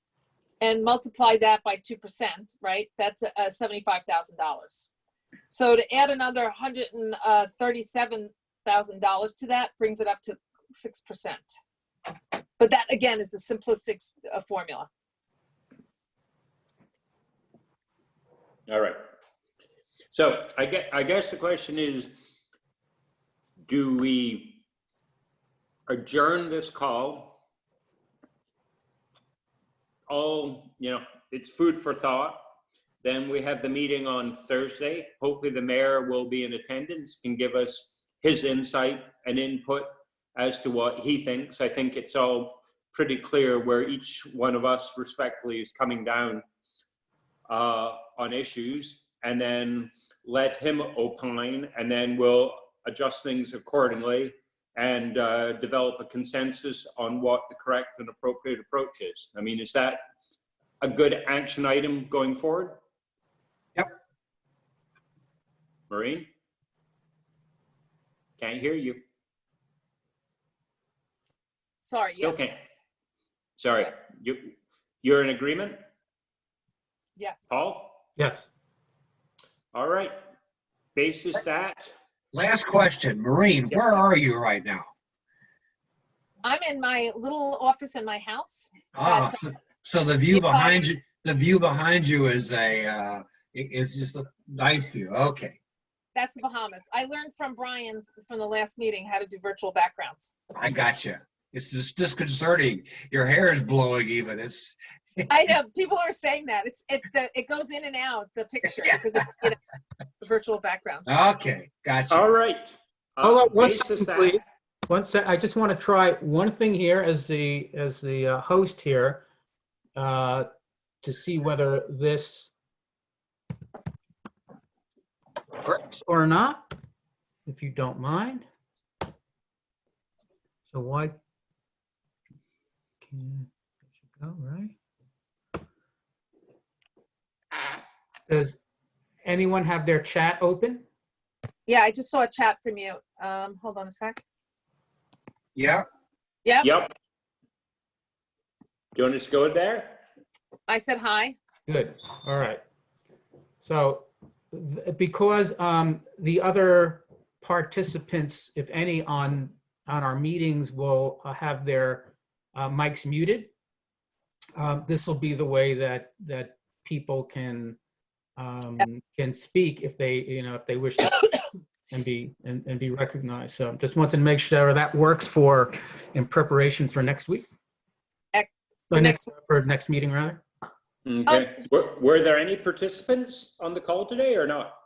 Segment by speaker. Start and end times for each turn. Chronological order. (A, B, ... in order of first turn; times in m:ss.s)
0:00.6-0:04.9 A
0:05.5-0:11.4 A
0:12.6-0:14.9 A
0:18.7-0:19.0 B
0:20.1-0:22.1 B
0:23.7-0:24.6 B
0:25.9-0:27.4 B
0:30.1-0:32.4 B
0:33.0-0:46.4 B
0:47.5-1:00.0 B
1:00.8-1:02.8 B
1:05.9-1:06.3 B
1:08.4-1:09.0 B
1:11.8-1:12.5 A
1:12.2-1:12.6 B
1:13.6-1:15.8 B
1:17.2-1:17.5 A
1:17.5-1:18.0 B
1:18.2-1:18.5 C
1:19.7-1:20.1 B
1:21.0-1:21.9 B
1:22.3-1:24.9 D
1:23.7-1:24.0 B
1:26.4-1:29.4 A
1:28.9-1:35.6 D
1:30.3-1:30.8 A
1:36.2-1:40.3 A
1:40.5-1:45.3 D
1:45.3-1:49.6 A
1:50.2-1:51.1 A
1:51.1-1:52.2 D
1:52.1-1:54.4 B
1:53.2-1:59.2 C
2:00.0-2:00.5 C
2:01.0-2:02.5 C
2:05.6-2:06.7 C
2:07.5-2:08.5 C
2:10.7-2:11.2 C
2:13.0-2:13.5 C
2:14.1-2:14.8 C
2:18.3-2:18.6 C
2:19.2-2:20.8 C
2:21.7-2:24.2 A
2:25.6-2:25.8 D
2:26.4-2:26.7 A
2:26.6-2:26.9 B
2:29.0-2:30.0 B
2:30.7-2:31.4 A
2:31.7-2:32.6 C
2:33.6-2:43.5 C
2:44.6-2:47.8 C
2:48.4-2:57.5 C
2:58.3-2:59.3 A
2:58.9-3:00.4 C
3:01.1-3:04.7 B
3:01.3-3:01.6 A